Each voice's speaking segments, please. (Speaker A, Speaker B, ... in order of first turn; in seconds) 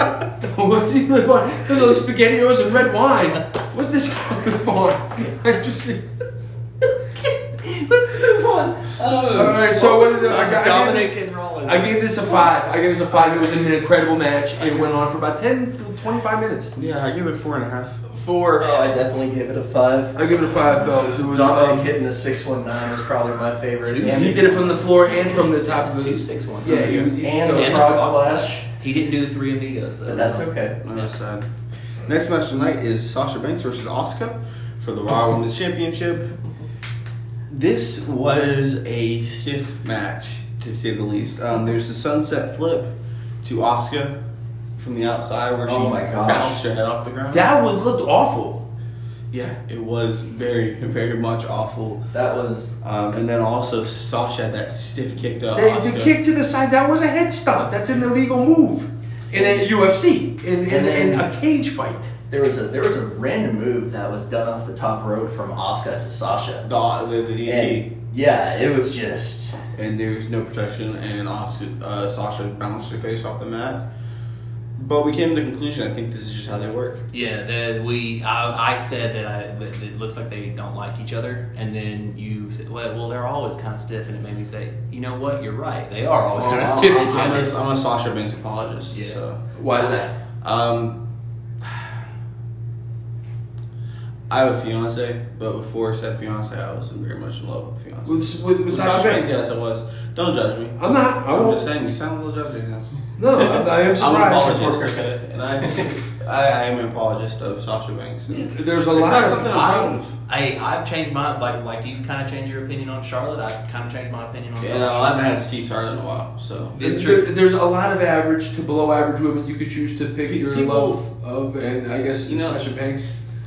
Speaker A: 0.4-6.0, 9.0-16.7, 20.1-21.9, 23.9-28.4, 47.3-48.6, 55.5-62.1, 86.5-87.5, 89.5-90.1, 98.0-99.4, 100.8-101.7, 103.2-105.0, 108.3-109.7, 116.8-123.1
Speaker B: 7.3-12.5, 18.1-19.0, 23.9-24.5, 25.2-31.1, 77.1-87.6, 88.9-89.2, 109.4-115.3, 116.7-117.3
Speaker C: 16.7-18.0, 30.8-31.5, 32.0-36.3, 37.5-42.9, 43.4-44.2, 44.8-47.5, 49.3-52.1, 52.8-56.1, 66.6-67.9, 69.7-73.9, 74.8-77.0, 86.3-89.4, 90.4-91.0, 94.3-110.1, 114.6-116.8, 120.3-121.0, 122.2-122.7
Speaker D: 18.6-20.2, 21.1-24.9, 26.7-28.6, 30.1-30.8, 45.6-46.6, 52.1-52.8, 59.3-59.6, 60.7-61.3, 62.3-66.7, 67.4-69.6